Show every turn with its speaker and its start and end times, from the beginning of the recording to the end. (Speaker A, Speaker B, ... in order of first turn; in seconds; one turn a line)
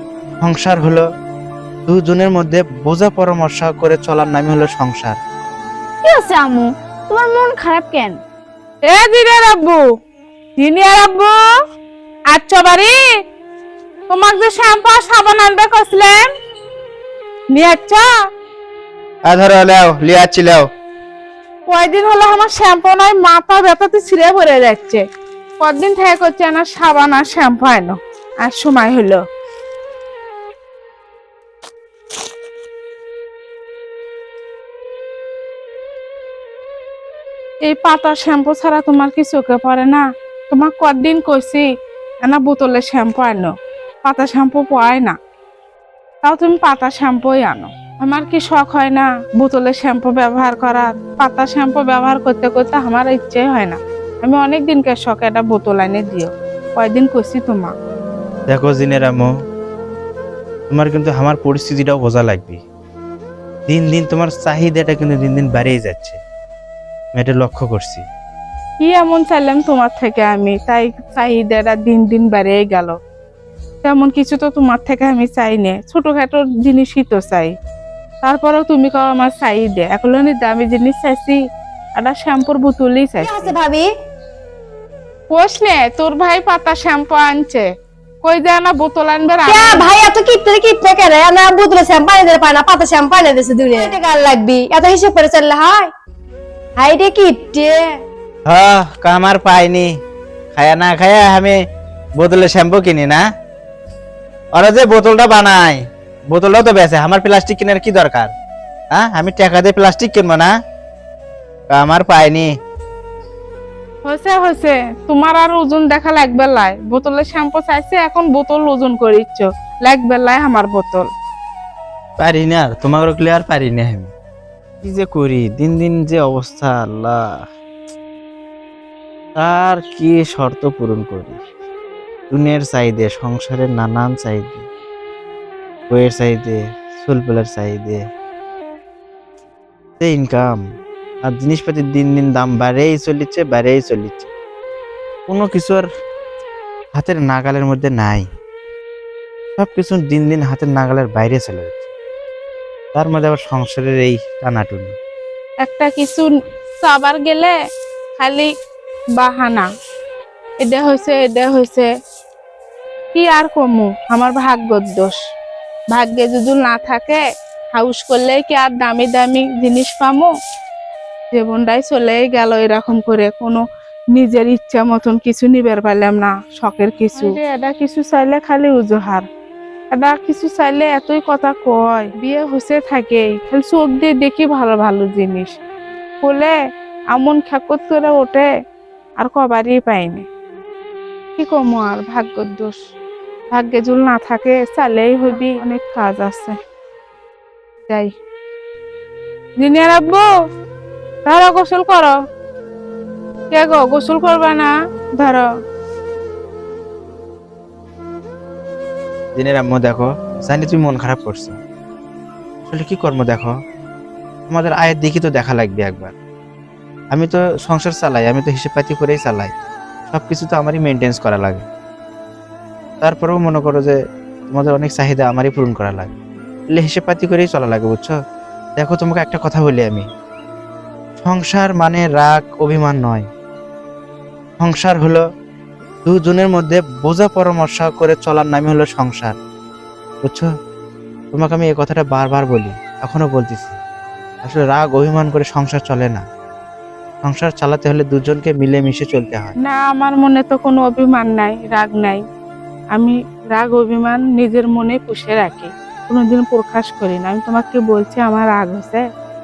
Speaker A: 0.4-1.0
Speaker A: 1.9-5.2
Speaker B: 6.0-8.2
Speaker C: 8.8-9.8
Speaker C: 10.6-11.4
Speaker C: 12.3-13.0
Speaker C: 14.1-16.3
Speaker C: 17.5-18.1
Speaker A: 19.3-20.7
Speaker C: 21.7-25.0
Speaker C: 25.6-29.2
Speaker C: 37.6-41.6
Speaker C: 42.2-43.5
Speaker C: 44.0-45.1
Speaker C: 46.2-57.7
Speaker A: 58.5-59.3
Speaker A: 60.7-62.6
Speaker A: 63.7-66.2
Speaker A: 67.1-68.0
Speaker C: 68.8-73.0
Speaker C: 73.8-77.5
Speaker C: 78.2-81.4
Speaker C: 82.0-83.5
Speaker D: 83.2-83.9
Speaker C: 85.3-87.7
Speaker C: 88.2-89.9
Speaker D: 89.5-95.9
Speaker D: 96.8-97.9
Speaker A: 98.5-99.9
Speaker A: 100.5-101.6
Speaker A: 102.2-103.2
Speaker A: 104.5-108.3
Speaker A: 108.9-110.5
Speaker A: 111.7-112.5
Speaker C: 114.0-121.1
Speaker A: 122.2-124.1
Speaker A: 124.8-127.2
Speaker A: 129.4-131.4
Speaker A: 132.3-134.7
Speaker A: 135.9-138.0
Speaker A: 140.0-140.6
Speaker A: 141.2-144.3
Speaker A: 145.3-145.8
Speaker A: 146.9-148.2
Speaker A: 149.6-151.8
Speaker A: 152.9-154.9
Speaker C: 155.6-157.5
Speaker C: 158.2-158.5
Speaker C: 159.2-159.7
Speaker C: 160.6-161.9
Speaker C: 163.1-165.2
Speaker C: 165.9-167.2
Speaker C: 167.7-170.3
Speaker C: 171.3-173.6
Speaker C: 174.1-179.2
Speaker C: 179.9-185.5
Speaker C: 186.2-186.5
Speaker C: 187.1-188.5
Speaker C: 189.2-190.2
Speaker C: 191.4-192.8
Speaker C: 193.5-196.6
Speaker C: 197.9-198.1
Speaker C: 199.6-200.3
Speaker C: 201.2-202.1
Speaker C: 203.5-205.5
Speaker A: 209.3-211.6
Speaker A: 212.7-213.5
Speaker A: 214.5-216.1
Speaker A: 217.1-219.5
Speaker A: 220.1-221.6
Speaker A: 223.0-224.0
Speaker A: 224.5-226.2
Speaker A: 226.7-228.1
Speaker A: 228.8-230.1
Speaker A: 231.2-233.3
Speaker A: 234.6-235.2
Speaker A: 236.0-239.3
Speaker A: 241.3-243.8
Speaker A: 244.4-246.2
Speaker A: 247.2-249.5
Speaker C: 249.6-252.2
Speaker C: 252.9-259.1